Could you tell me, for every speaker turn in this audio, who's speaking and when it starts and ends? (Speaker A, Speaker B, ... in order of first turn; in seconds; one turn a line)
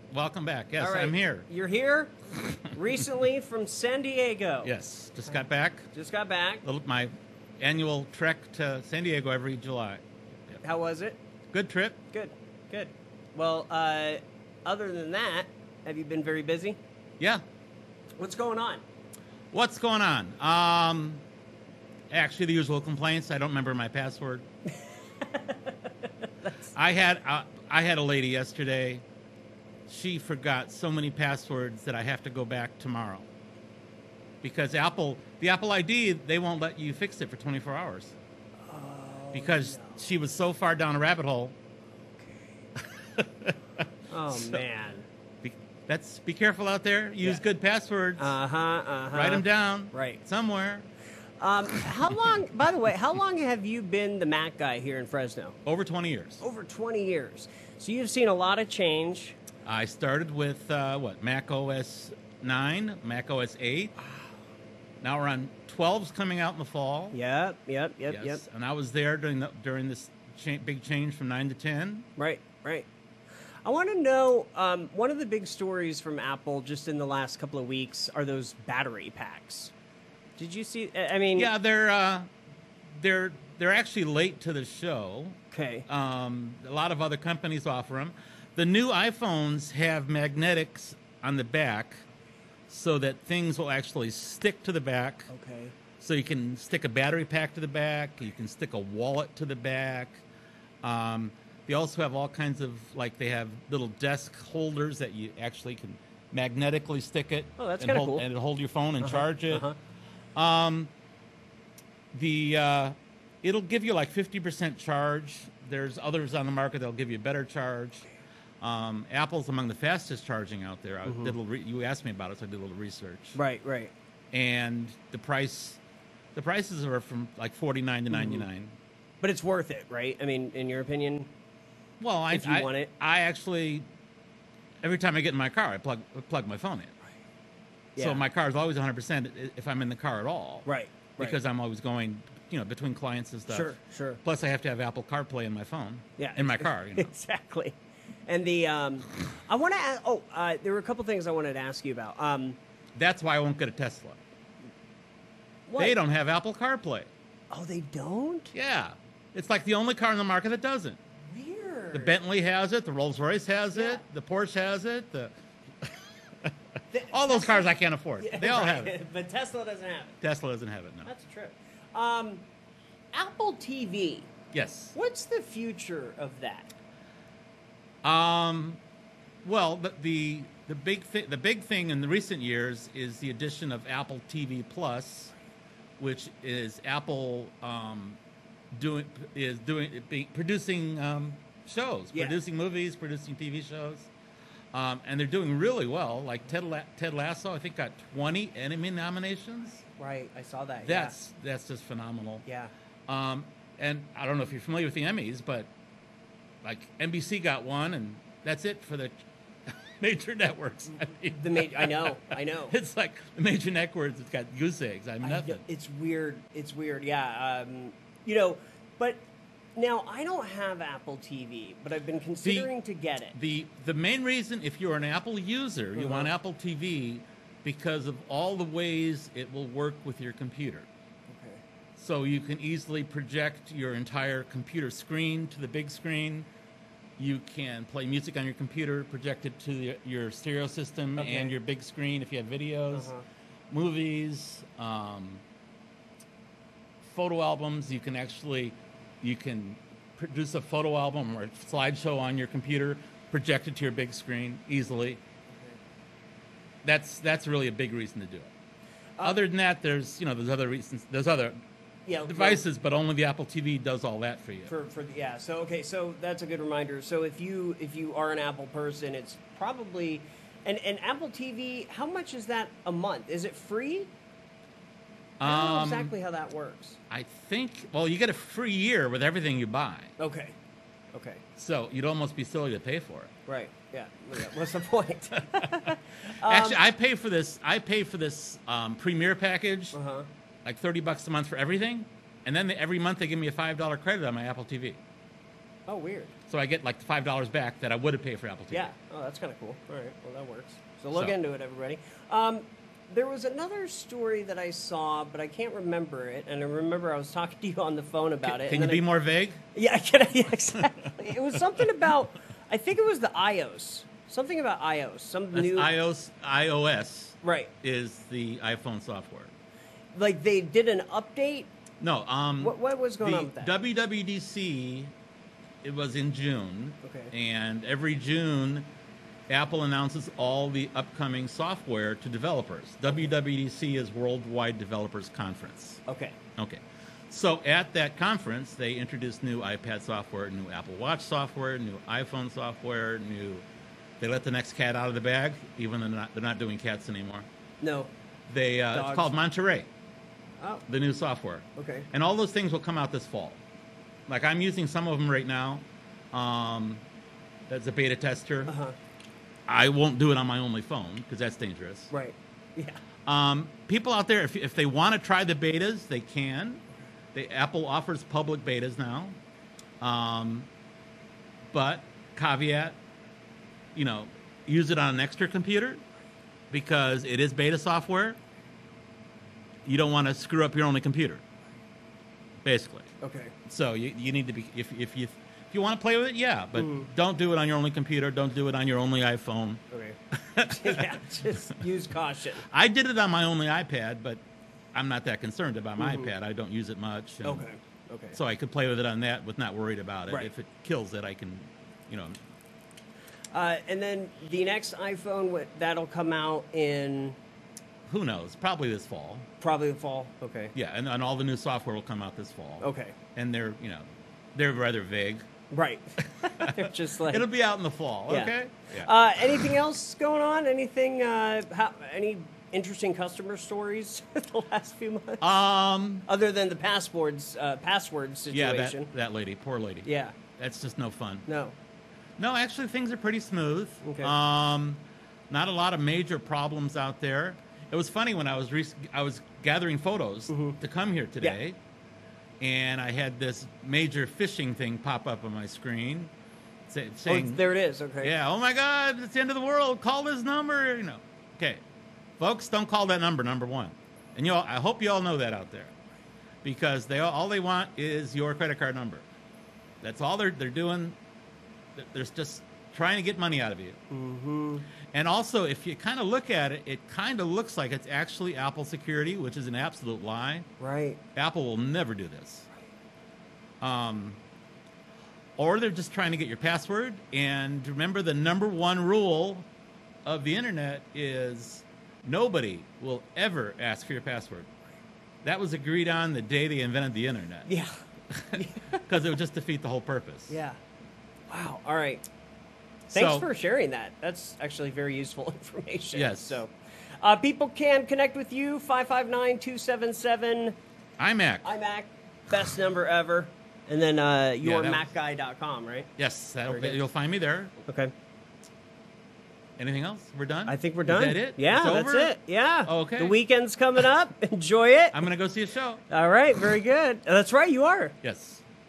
Speaker A: 0.1-1.5
Speaker B: 0.8-4.7
Speaker A: 4.6-5.9
Speaker B: 5.9-6.7
Speaker A: 6.6-10.6
Speaker B: 10.6-11.2
Speaker A: 11.5-12.0
Speaker B: 12.1-16.8
Speaker B: 18.2-18.8
Speaker A: 19.5-21.2
Speaker A: 22.1-24.4
Speaker B: 25.2-26.7
Speaker A: 26.7-29.0
Speaker A: 29.9-33.3
Speaker A: 34.4-38.1
Speaker B: 38.6-40.0
Speaker A: 39.3-41.5
Speaker B: 42.1-42.5
Speaker A: 42.9-44.6
Speaker B: 44.1-45.1
Speaker A: 45.4-48.4
Speaker B: 48.2-50.2
Speaker A: 49.1-50.9
Speaker B: 51.4-55.6
Speaker A: 55.6-56.4
Speaker B: 56.4-59.4
Speaker A: 59.7-64.0
Speaker A: 65.0-67.2
Speaker B: 67.1-68.4
Speaker A: 68.1-72.1
Speaker B: 72.2-72.9
Speaker B: 73.7-79.7
Speaker B: 80.4-81.5
Speaker A: 81.4-82.3
Speaker A: 83.0-92.0
Speaker B: 85.5-85.9
Speaker A: 92.7-95.3
Speaker B: 95.3-95.7
Speaker A: 96.0-100.2
Speaker A: 100.8-109.7
Speaker B: 107.6-108.2
Speaker B: 109.0-109.8
Speaker A: 110.4-110.9
Speaker A: 112.1-118.1
Speaker A: 118.6-123.4
Speaker B: 121.0-121.4
Speaker B: 123.3-123.9
Speaker A: 124.3-125.8
Speaker A: 126.3-128.8
Speaker B: 128.1-128.4
Speaker B: 129.2-131.3
Speaker A: 132.0-133.8
Speaker B: 132.3-132.9
Speaker A: 134.8-136.9
Speaker B: 137.9-138.2
Speaker A: 138.0-140.7
Speaker B: 140.7-141.4
Speaker A: 141.2-147.1
Speaker B: 143.5-144.2
Speaker B: 146.2-147.8
Speaker B: 148.3-152.6
Speaker A: 152.9-154.2
Speaker B: 155.7-156.0
Speaker A: 155.8-157.1
Speaker B: 157.5-158.5
Speaker A: 158.5-161.0
Speaker B: 161.3-162.2
Speaker A: 161.9-166.5
Speaker B: 163.7-164.0
Speaker B: 166.9-170.2
Speaker A: 167.1-168.9
Speaker A: 170.2-171.1
Speaker B: 171.1-172.4
Speaker B: 173.1-174.3
Speaker A: 174.5-174.9
Speaker B: 174.9-176.7
Speaker A: 178.0-178.8
Speaker A: 179.4-185.3
Speaker A: 186.0-188.2
Speaker A: 188.7-194.1
Speaker B: 192.1-192.4
Speaker A: 194.7-199.8
Speaker B: 200.0-201.2
Speaker A: 200.8-202.4
Speaker B: 202.5-202.7
Speaker A: 203.1-205.7
Speaker A: 206.6-209.1
Speaker A: 209.7-215.6
Speaker B: 211.3-212.8
Speaker B: 215.2-219.2
Speaker B: 219.8-223.3
Speaker A: 222.4-222.7
Speaker A: 223.3-230.9
Speaker B: 225.9-226.3
Speaker B: 231.3-231.6
Speaker A: 232.0-236.5
Speaker A: 237.2-243.1
Speaker B: 241.2-241.6
Speaker B: 242.9-243.2
Speaker A: 243.7-245.4
Speaker A: 247.0-255.2
Speaker B: 255.5-255.8
Speaker A: 256.8-258.5
Speaker A: 259.2-261.6
Speaker B: 262.1-262.6
Speaker A: 262.2-264.7
Speaker B: 264.7-274.1
Speaker A: 275.4-276.1
Speaker B: 275.4-277.0
Speaker A: 277.1-280.1
Speaker B: 280.2-280.6
Speaker B: 281.1-281.4
Speaker A: 281.6-283.3
Speaker B: 283.5-286.8
Speaker A: 285.6-290.0
Speaker B: 289.9-290.3
Speaker A: 290.6-295.0
Speaker B: 295.9-296.3
Speaker A: 296.5-298.9
Speaker B: 298.7-309.0
Speaker A: 308.4-309.6
Speaker B: 309.7-315.9
Speaker A: 315.5-319.5
Speaker B: 317.4-317.7
Speaker B: 320.1-321.7
Speaker A: 322.0-325.1
Speaker B: 322.6-323.7
Speaker A: 325.8-328.9
Speaker B: 327.0-327.3
Speaker A: 329.5-336.0
Speaker B: 336.1-336.4
Speaker A: 336.6-343.6
Speaker A: 344.2-347.5
Speaker B: 347.8-348.1
Speaker A: 348.5-349.9
Speaker B: 348.9-349.3
Speaker A: 350.9-353.6
Speaker B: 351.8-352.1
Speaker A: 354.3-357.0
Speaker A: 357.7-358.7
Speaker B: 358.7-358.9
Speaker A: 359.7-362.1
Speaker B: 362.1-363.0
Speaker A: 363.3-366.8
Speaker A: 367.3-369.4
Speaker A: 370.0-370.7
Speaker A: 371.7-373.0
Speaker A: 373.9-376.0
Speaker A: 376.7-378.4
Speaker A: 379.9-381.4
Speaker A: 382.6-383.1
Speaker B: 383.2-383.5
Speaker A: 383.7-389.8
Speaker B: 386.8-387.1
Speaker B: 389.9-392.6
Speaker A: 390.3-391.2
Speaker A: 392.7-394.4
Speaker A: 394.9-397.7
Speaker B: 396.0-396.3
Speaker B: 397.4-398.4
Speaker A: 398.3-402.4
Speaker B: 403.5-407.4
Speaker A: 408.1-409.5
Speaker B: 409.6-410.7
Speaker A: 410.8-415.4
Speaker B: 412.8-413.2
Speaker B: 415.7-417.5
Speaker A: 416.4-419.1
Speaker B: 418.3-425.6
Speaker A: 425.4-426.3
Speaker B: 426.3-429.1
Speaker A: 428.5-430.1
Speaker B: 430.0-430.4
Speaker A: 430.6-431.5
Speaker B: 431.5-431.7
Speaker A: 432.4-441.8
Speaker B: 434.0-434.3
Speaker B: 440.5-440.8
Speaker A: 442.6-446.3
Speaker A: 446.9-447.6
Speaker B: 447.3-448.3
Speaker A: 448.2-451.8
Speaker A: 452.4-455.9
Speaker A: 456.6-459.2
Speaker A: 460.0-461.2
Speaker A: 462.0-464.0
Speaker B: 464.1-464.9
Speaker A: 465.1-470.7
Speaker B: 470.8-471.2
Speaker A: 471.4-472.7
Speaker A: 473.8-474.4
Speaker A: 475.6-479.7
Speaker A: 480.2-484.7
Speaker A: 485.4-487.7
Speaker B: 487.7-488.0
Speaker A: 488.3-490.6
Speaker B: 488.5-489.0
Speaker B: 490.5-490.8
Speaker B: 491.5-492.2
Speaker A: 493.1-493.5
Speaker B: 493.1-500.8
Speaker A: 496.1-496.6
Speaker A: 501.2-501.7
Speaker B: 501.6-506.1
Speaker A: 504.6-505.1
Speaker A: 506.2-507.8
Speaker B: 506.7-507.0
Speaker B: 507.9-508.1
Speaker A: 509.8-513.4
Speaker B: 510.7-515.3
Speaker A: 515.1-516.0
Speaker B: 516.1-518.2
Speaker A: 518.2-518.6